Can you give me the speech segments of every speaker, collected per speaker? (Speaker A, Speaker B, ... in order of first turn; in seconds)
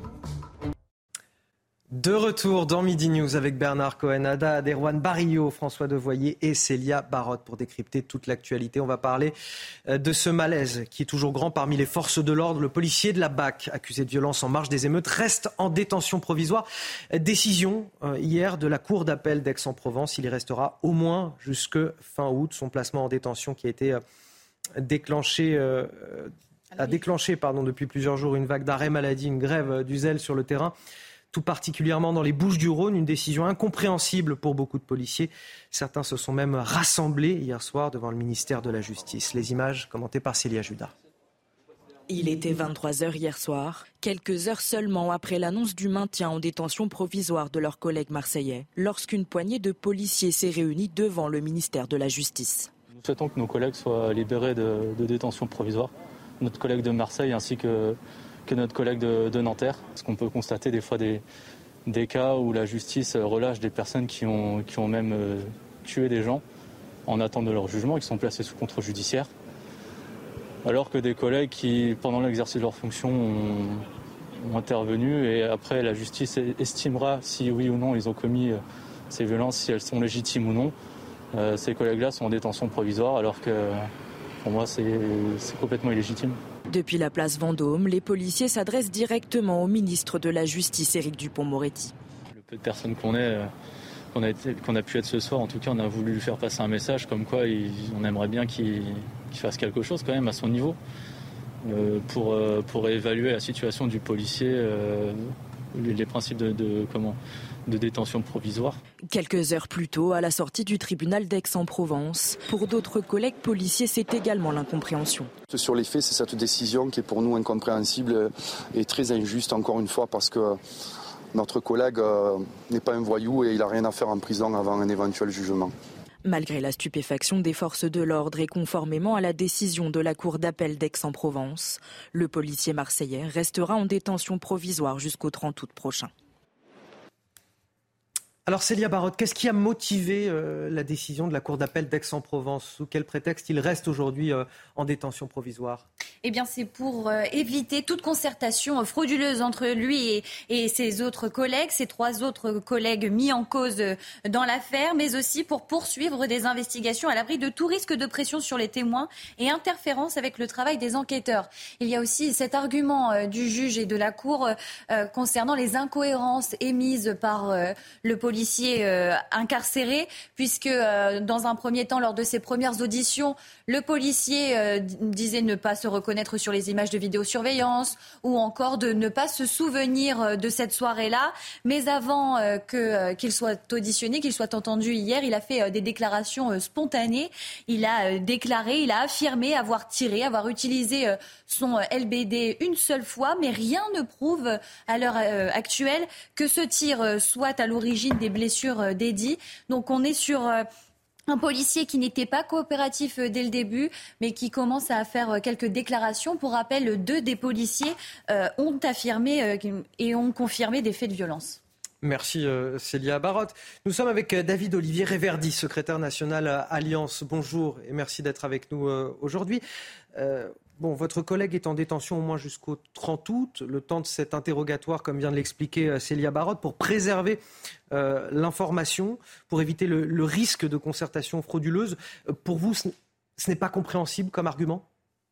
Speaker A: 1.9-9.3, 9.9-24.0, 24.8-30.7, 31.3-40.9, 138.4-145.8, 212.0-219.6, 220.2-227.4, 227.9-234.8
Speaker B: 42.1-52.7, 86.7-91.9, 109.1-115.3, 126.2-136.1
Speaker C: 52.9-61.2, 61.9-66.4, 67.0-69.3, 70.6-73.8, 74.4-80.7, 81.3-83.9, 84.4-86.4, 92.3-93.5, 94.1-100.8, 101.6-108.8
Speaker D: 115.5-120.6, 121.3-125.7
Speaker E: 146.2-200.7, 201.3-211.6